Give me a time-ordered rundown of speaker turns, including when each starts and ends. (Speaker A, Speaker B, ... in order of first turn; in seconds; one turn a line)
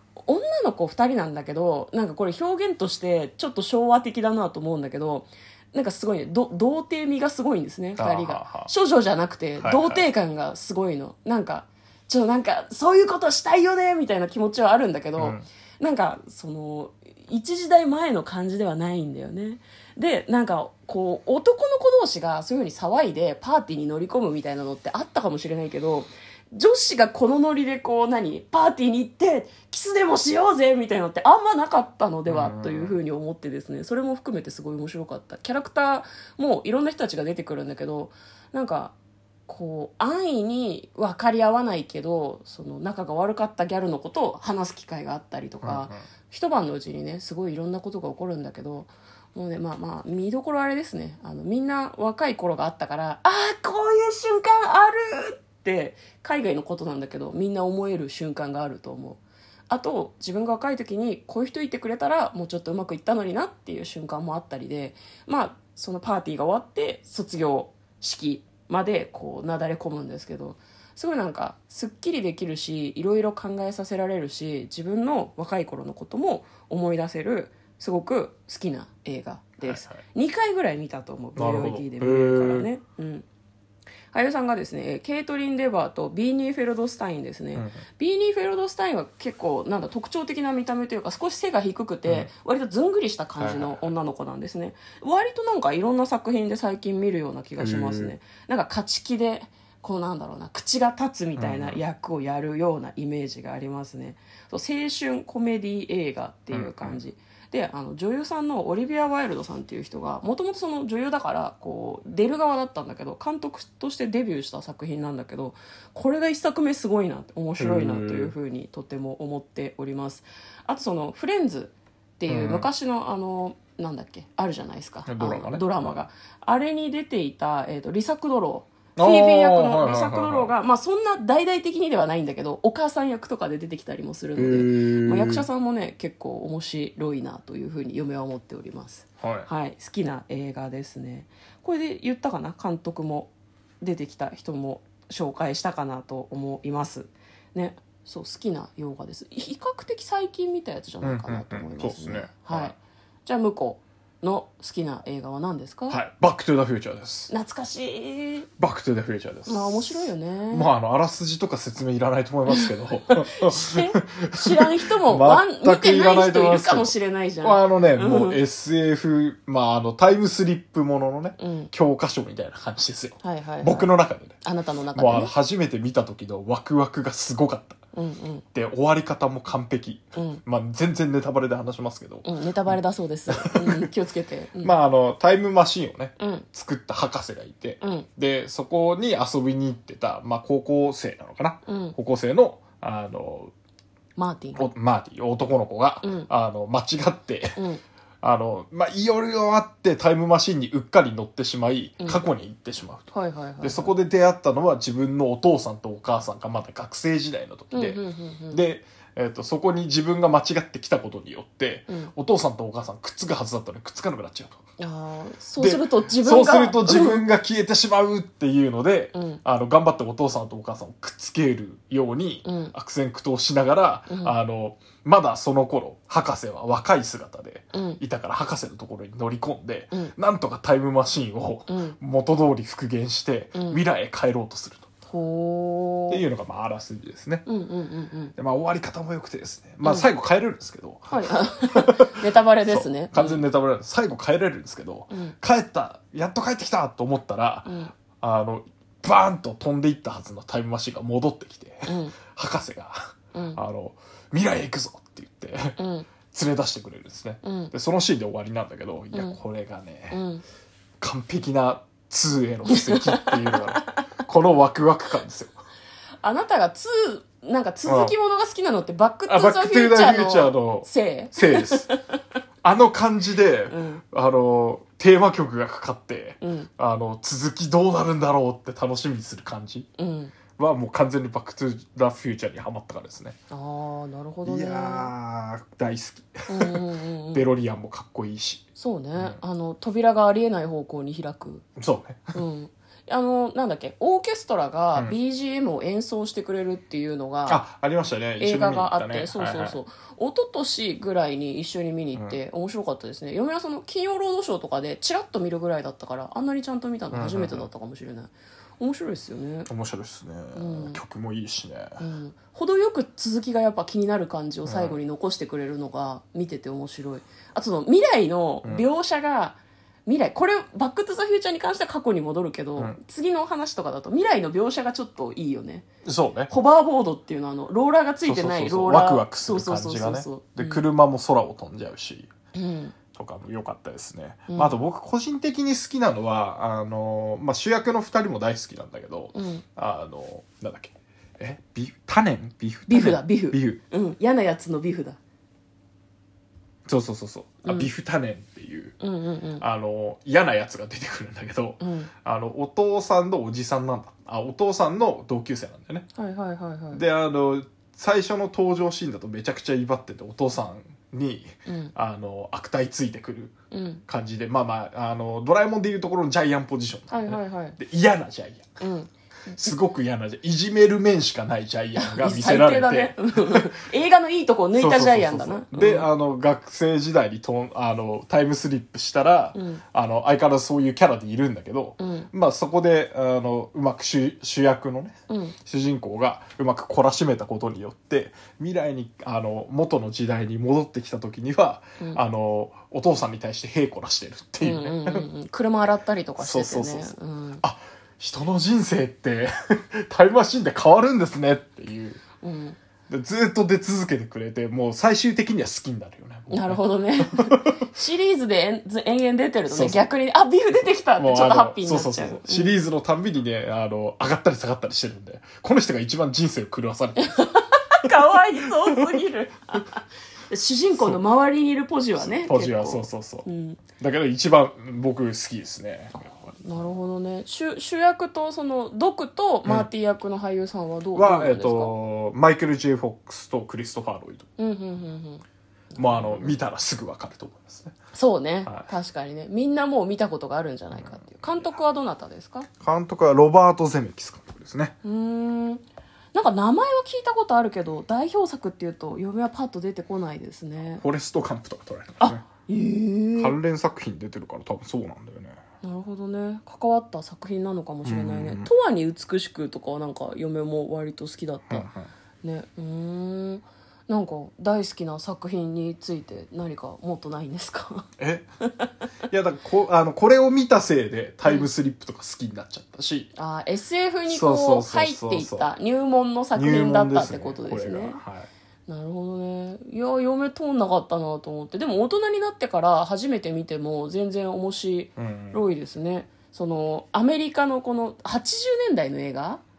Speaker A: 0.2-38.9
Speaker B: 8.0-8.7
Speaker B: 9.6-10.1
Speaker B: 15.2-15.4
Speaker B: 32.3-33.0
Speaker A: 39.5-83.2
Speaker B: 45.6-46.0
Speaker B: 79.6-80.0
Speaker B: 81.3-82.7
Speaker A: 84.1-156.0
Speaker B: 87.5-87.8
Speaker B: 93.4-93.9
Speaker B: 97.6-98.1
Speaker B: 101.3-101.8
Speaker B: 106.5-107.0
Speaker B: 117.6-118.3
Speaker B: 122.3-122.7
Speaker B: 125.0-126.0
Speaker B: 128.9-130.5
Speaker B: 134.3-135.5
Speaker B: 139.2-139.5
Speaker B: 151.0-152.8
Speaker B: 155.9-157.3
Speaker A: 157.3-158.5
Speaker B: 158.6-174.4
Speaker A: 159.4-160.7
Speaker A: 163.4-168.4
Speaker A: 171.4-171.7
Speaker A: 173.2-175.3
Speaker B: 174.9-177.8
Speaker A: 177.9-178.4
Speaker B: 178.5-183.9
Speaker A: 180.2-180.4
Speaker A: 182.2-184.7
Speaker B: 184.6-193.5
Speaker A: 186.2-186.4
Speaker A: 187.8-188.1
Speaker A: 191.7-191.9
Speaker A: 194.2-194.7
Speaker B: 194.6-197.6
Speaker A: 196.0-196.3
Speaker A: 197.6-197.8
Speaker B: 198.2-214.6
Speaker A: 202.0-202.2
Speaker A: 203.1-203.9
Speaker A: 207.7-208.6
Speaker A: 214.8-217.2
Speaker B: 215.6-234.9
Speaker A: 219.1-219.4
Speaker A: 222.4-222.7
Speaker A: 224.1-224.3
Speaker A: 227.7-228.0
Speaker A: 231.7-232.0
Speaker A: 233.5-233.8
Speaker A: 235.1-236.2
Speaker B: 236.1-237.4
Speaker A: 237.4-238.3
Speaker B: 238.3-255.8
Speaker A: 239.8-240.1
Speaker A: 241.1-243.4
Speaker A: 247.7-247.9
Speaker A: 251.9-252.1
Speaker A: 253.3-253.6
Speaker A: 255.8-256.1
Speaker B: 256.3-260.2
Speaker A: 257.4-257.7
Speaker A: 259.1-259.4
Speaker A: 260.1-260.4
Speaker B: 261.0-265.6
Speaker A: 262.7-263.6
Speaker A: 266.2-272.0
Speaker B: 267.9-268.1
Speaker B: 269.3-271.9
Speaker B: 272.6-279.9
Speaker A: 273.7-274.0
Speaker A: 276.4-276.7
Speaker A: 280.0-280.3
Speaker B: 280.6-283.4
Speaker A: 283.5-285.1
Speaker B: 284.4-286.8
Speaker A: 286.5-287.4
Speaker B: 287.3-288.6
Speaker A: 288.8-291.6
Speaker B: 291.8-292.4
Speaker A: 292.3-297.6
Speaker B: 297.5-299.8
Speaker A: 298.4-309.7
Speaker B: 302.1-302.4
Speaker B: 307.1-307.7
Speaker B: 309.7-312.0
Speaker A: 310.5-311.0
Speaker A: 312.0-325.9
Speaker B: 314.6-315.0
Speaker B: 326.0-326.5
Speaker A: 326.5-330.8
Speaker B: 328.2-332.3
Speaker A: 332.5-332.9
Speaker B: 333.1-343.8
Speaker A: 339.3-339.6
Speaker A: 342.9-345.2
Speaker B: 346.9-349.0
Speaker A: 347.6-347.9
Speaker A: 349.0-349.6
Speaker B: 349.6-356.1
Speaker A: 351.8-352.1
Speaker A: 356.1-357.0
Speaker B: 356.9-363.5
Speaker A: 361.6-361.9
Speaker A: 363.7-364.0
Speaker B: 364.1-368.7
Speaker A: 367.1-367.8
Speaker A: 368.8-369.8
Speaker B: 369.6-373.8
Speaker A: 372.0-376.1
Speaker B: 374.8-395.2
Speaker A: 379.5-379.8
Speaker A: 382.0-382.3
Speaker A: 385.3-385.6
Speaker A: 394.6-397.6
Speaker B: 396.4-402.2
Speaker A: 402.4-402.8
Speaker B: 403.1-407.8
Speaker A: 406.5-412.7
Speaker B: 409.7-410.1
Speaker B: 411.2-417.5
Speaker A: 417.2-423.8
Speaker B: 422.2-423.4
Speaker B: 424.0-426.8
Speaker A: 426.6-431.9
Speaker B: 431.1-434.5
Speaker A: 434.6-436.6
Speaker B: 436.0-437.9
Speaker A: 438.1-442.7
Speaker B: 440.9-441.7
Speaker B: 442.8-444.9
Speaker A: 445.0-451.0
Speaker B: 450.9-452.5
Speaker A: 452.2-453.6
Speaker B: 453.4-455.6
Speaker A: 455.8-461.9
Speaker B: 458.0-458.7
Speaker B: 461.6-462.1
Speaker A: 462.4-468.1
Speaker B: 468.2-468.5
Speaker B: 469.3-473.3
Speaker A: 473.4-478.2
Speaker B: 474.3-475.7
Speaker B: 476.5-478.5
Speaker A: 478.9-489.6
Speaker B: 485.2-485.6